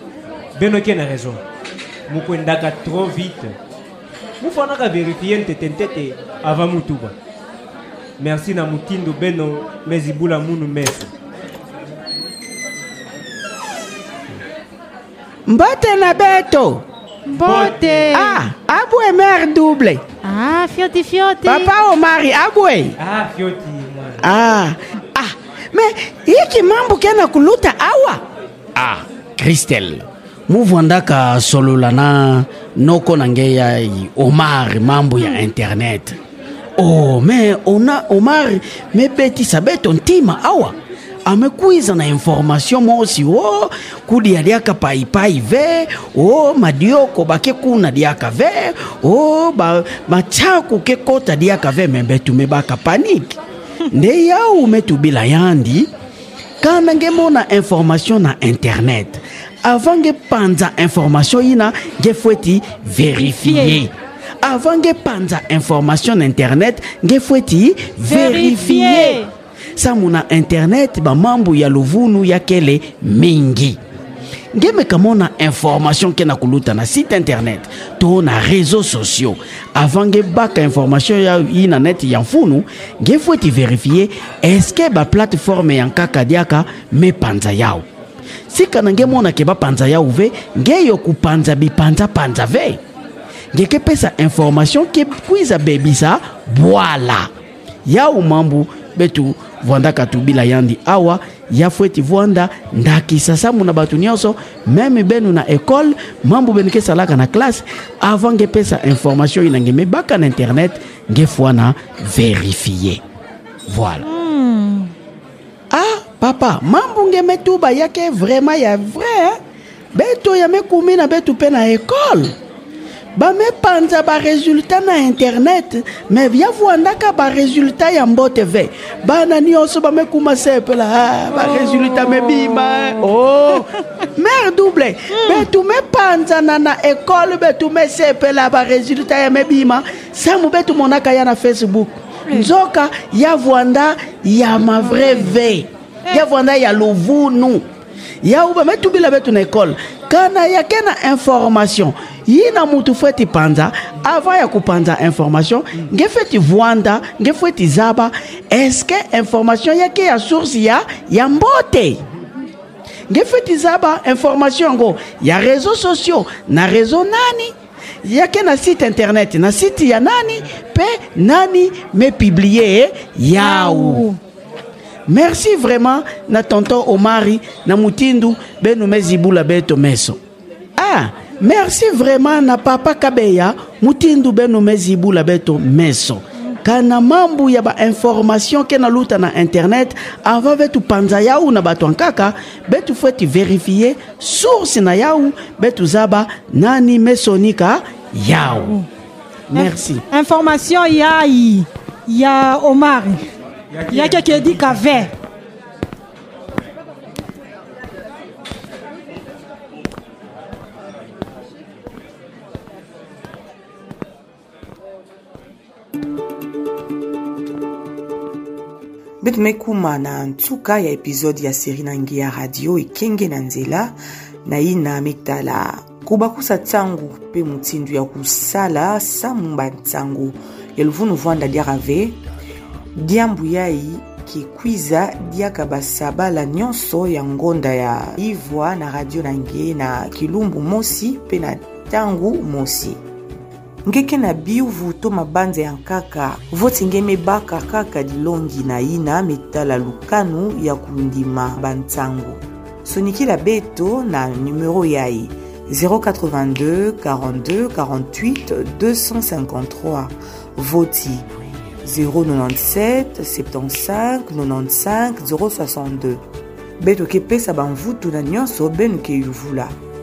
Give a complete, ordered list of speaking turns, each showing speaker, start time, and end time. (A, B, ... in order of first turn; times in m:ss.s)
0:00.6-0:01.4 A
0:02.1-0:03.6 A
0:04.4-0:07.1 A
0:08.2-0:11.1 A
0:15.5-0:16.8 B
0:17.2-0:18.4 C
0:17.4-0:18.1 A
0:18.1-0:20.0 B
0:20.2-0:21.7 C
0:21.4-0:23.0 B
0:23.0-0:24.2 A
0:24.2-0:28.2 B
0:28.7-0:36.2 B
0:36.8-0:53.4 B
0:53.9-0:55.9 B
0:56.6-1:09.2 B
1:03.2-1:03.8 C
1:08.0-1:09.3 C
1:09.8-1:13.8 B
1:14.5-1:27.8 B
1:28.5-1:32.8 B
1:33.5-1:37.3 B
1:37.8-1:53.0 B
1:53.7-1:54.0 B
1:54.0-1:54.9 C
1:55.7-1:59.4 B
1:59.9-2:02.3 B
2:03.1-2:27.6 B
2:11.3-2:13.6 C
2:15.1-2:15.5 C
2:24.8-2:25.3 C
2:28.2-2:42.0 B
2:43.1-2:47.5 B
2:48.0-2:54.1 B
2:53.4-2:54.2 C
2:55.1-3:00.2 B
3:00.8-3:18.8 B
3:18.5-3:18.8 C
3:19.5-3:20.0 B
3:19.5-3:23.2 C
3:23.7-3:24.6 A
3:23.8-3:25.1 C
3:39.2-3:52.2 D
3:53.0-4:03.0 D
4:03.8-4:21.2 D
4:21.8-4:26.2 D
4:26.8-4:29.7 D